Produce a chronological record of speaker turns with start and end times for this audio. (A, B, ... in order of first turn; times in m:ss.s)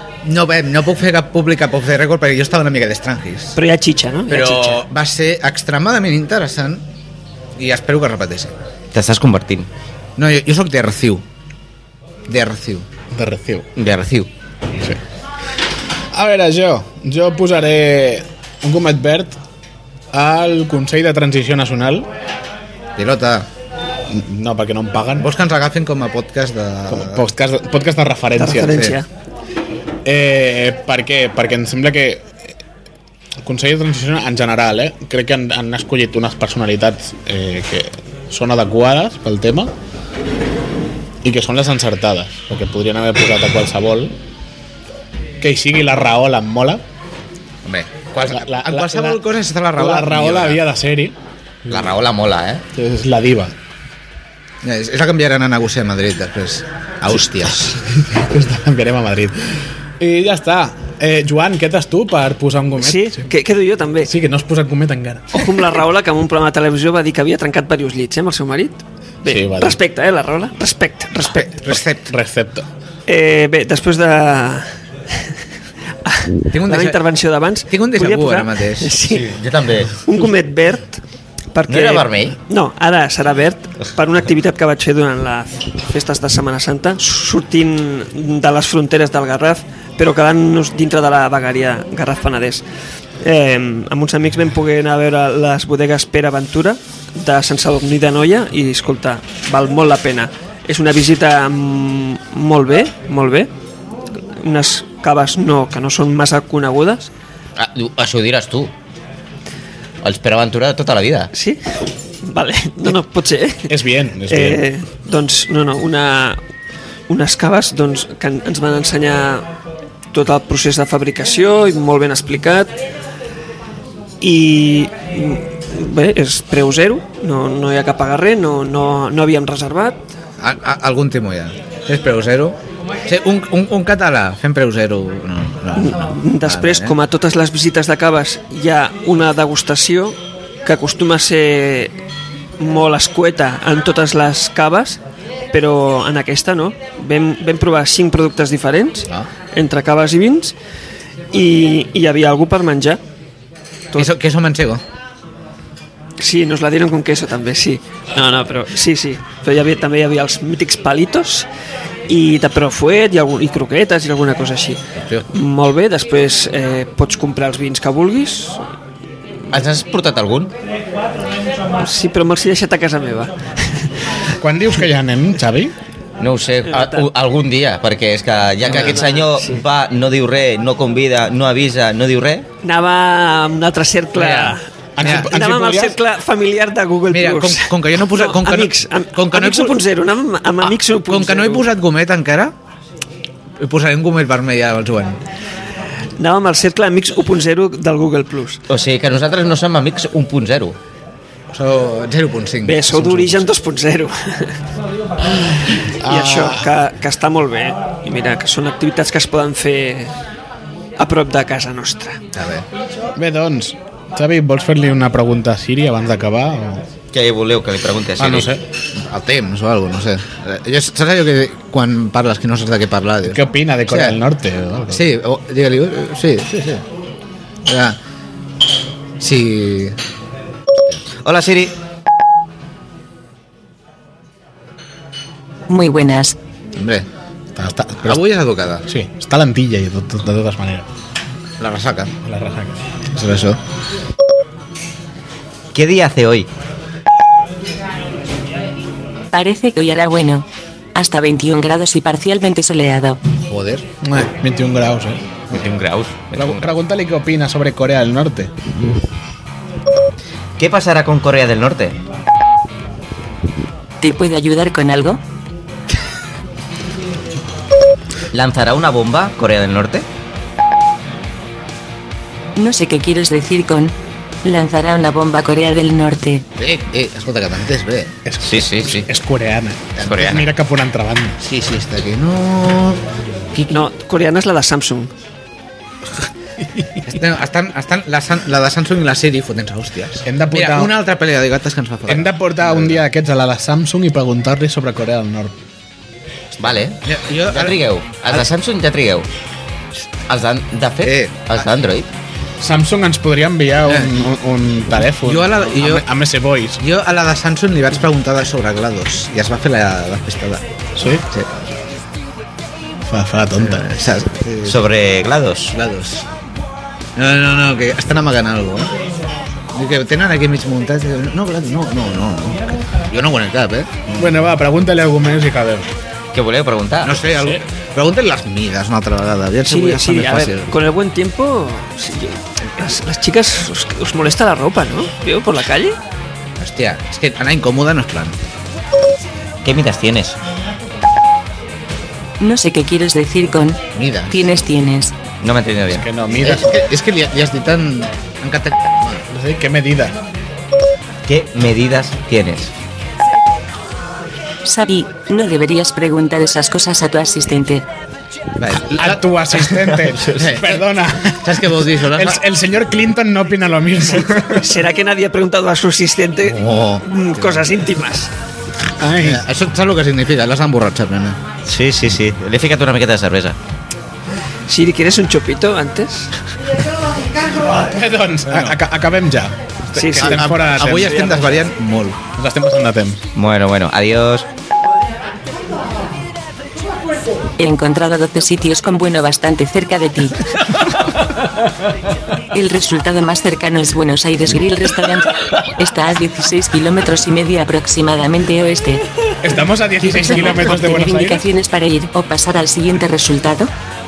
0:00.2-0:03.6 A
0:03.6-0:04.8 B
0:04.3-0:06.8 A
0:07.6-0:08.5 A
0:08.9-0:09.7 C
0:10.2-0:11.2 A
0:12.3-0:12.8 A
0:13.1-0:13.7 D
0:13.8-0:14.3 C
0:16.1-0:19.4 D
0:20.1-0:22.1 D
0:23.0-0:23.5 A
0:24.1-0:25.3 D
0:25.2-0:27.3 A
0:26.9-0:28.9 D
0:28.4-0:29.1 B
0:28.7-0:29.0 A
0:30.0-0:32.3 D
0:33.4-0:39.7 D
0:41.2-0:44.2 D
0:45.4-0:46.8 D
0:47.6-0:50.6 A
0:48.3-0:49.2 D
0:49.8-0:51.2 D
0:51.7-0:52.6 C
0:52.7-0:53.5 D
0:54.6-0:57.8 A
0:57.7-1:03.2 D
1:02.8-1:04.1 B
1:04.0-1:05.5 D
1:05.3-1:11.5 B
1:09.2-1:09.8 D
1:11.2-1:12.1 A
1:11.7-1:12.7 D
1:13.1-1:14.7 B
1:16.0-1:19.3 B
1:16.5-1:17.0 A
1:17.7-1:19.0 A
1:19.0-1:20.0 C
1:20.0-1:21.0 B
1:21.5-1:32.6 B
1:21.7-1:22.4 C
1:33.2-1:43.5 B
1:44.3-1:47.1 B
1:47.6-1:48.7 C
1:50.0-1:51.3 C
1:51.3-1:53.8 B
1:53.7-1:54.6 D
1:54.3-1:56.4 B
1:57.1-1:59.5 B
2:00.1-2:02.7 B
2:04.2-2:10.0 B
2:10.4-2:17.0 A
2:15.7-2:21.9 B
2:22.6-2:25.0 B
2:25.5-2:30.5 B
2:31.3-2:33.0 B
2:33.9-2:34.8 A
2:36.2-2:41.5 B
2:42.1-2:48.6 B
2:45.0-2:45.2 A
2:49.5-2:50.5 C
2:51.8-2:53.9 B
2:54.4-2:55.8 D
2:56.2-3:02.5 C
2:56.6-2:57.1 B
2:58.6-2:59.0 A
2:58.7-2:59.6 B
3:02.6-3:11.7 B
3:04.2-3:06.0 D
3:05.0-3:05.3 A
3:07.1-3:09.8 A
3:11.0-3:12.5 A
3:13.6-3:15.2 A
3:16.2-3:18.6 B
3:18.7-3:20.8 C
3:21.5-3:23.5 A
3:22.6-3:24.6 B
3:26.0-3:26.6 D
3:26.0-3:30.1 B
3:31.0-3:32.2 B
3:32.3-3:32.7 A
3:33.2-3:36.8 D
3:37.1-3:38.5 C
3:38.2-3:38.6 D
3:38.9-3:44.2 A
3:43.3-3:45.0 D
3:44.9-3:46.8 A
3:47.6-3:48.0 A
3:49.2-3:50.0 A
3:51.2-3:51.7 C
3:55.7-3:56.4 E
3:56.7-3:57.1 A
3:57.5-3:58.2 D
3:58.0-3:58.8 A
3:58.9-4:00.8 D
4:01.6-4:02.1 A
4:02.2-4:02.8 D
4:03.1-4:03.6 A
4:05.7-4:06.5 C
4:09.3-4:13.2 E
4:13.5-4:13.9 A
4:14.0-4:15.4 D
4:15.5-4:16.6 C
4:16.3-4:18.5 D
4:20.6-4:22.0 C
4:24.0-4:25.2 E
4:28.3-4:30.0 C
4:32.6-4:36.4 E
4:36.6-4:38.1 A
4:38.2-4:41.4 D
4:38.4-4:39.1 C
4:40.0-4:40.3 A
4:40.0-4:40.5 C
4:41.4-4:43.0 A
4:43.5-4:43.9 A
4:43.7-4:45.1 B
4:47.0-4:53.0 A
4:50.2-4:50.9 D
4:52.1-4:55.5 D
4:56.6-4:59.2 C
4:57.0-4:58.5 A
5:00.3-5:02.1 C
5:01.0-5:01.6 A
5:02.6-5:06.8 D
5:03.8-5:04.2 A
5:05.0-5:06.0 A
5:06.8-5:10.6 A
5:11.0-5:11.2 D
5:11.3-5:11.5 A
5:13.1-5:13.9 D
5:13.6-5:14.8 A
5:14.6-5:15.7 C
5:15.7-5:16.3 A
5:17.2-5:18.9 A
5:19.7-5:24.5 A
5:24.2-5:25.9 D
5:26.3-5:27.2 C
5:27.0-5:30.7 A
5:27.3-5:27.6 D
5:29.7-5:36.0 B
5:36.6-5:38.4 A
5:39.6-5:40.4 C
5:42.4-5:45.1 E
5:43.9-5:44.5 A
5:45.4-5:46.0 C
5:45.9-5:46.7 D
5:46.4-5:49.2 A
5:49.3-5:50.2 D
5:51.2-5:52.7 C
5:54.6-5:57.8 E
5:58.6-5:59.6 A
5:58.9-6:04.7 D
6:00.0-6:00.3 C
6:00.3-6:00.8 A
6:01.4-6:02.4 A
6:04.5-6:08.3 B
6:06.4-6:07.7 A
6:09.0-6:09.4 D
6:09.2-6:11.4 A
6:11.6-6:13.6 C
6:14.7-6:16.3 B
6:17.7-6:21.6 D
6:18.5-6:18.8 A
6:19.9-6:21.6 B
6:20.1-6:22.2 A
6:22.4-6:23.2 D
6:23.4-6:24.5 C
6:27.6-6:30.4 E
6:32.5-6:39.0 E
6:39.4-6:41.4 D
6:40.0-6:43.7 E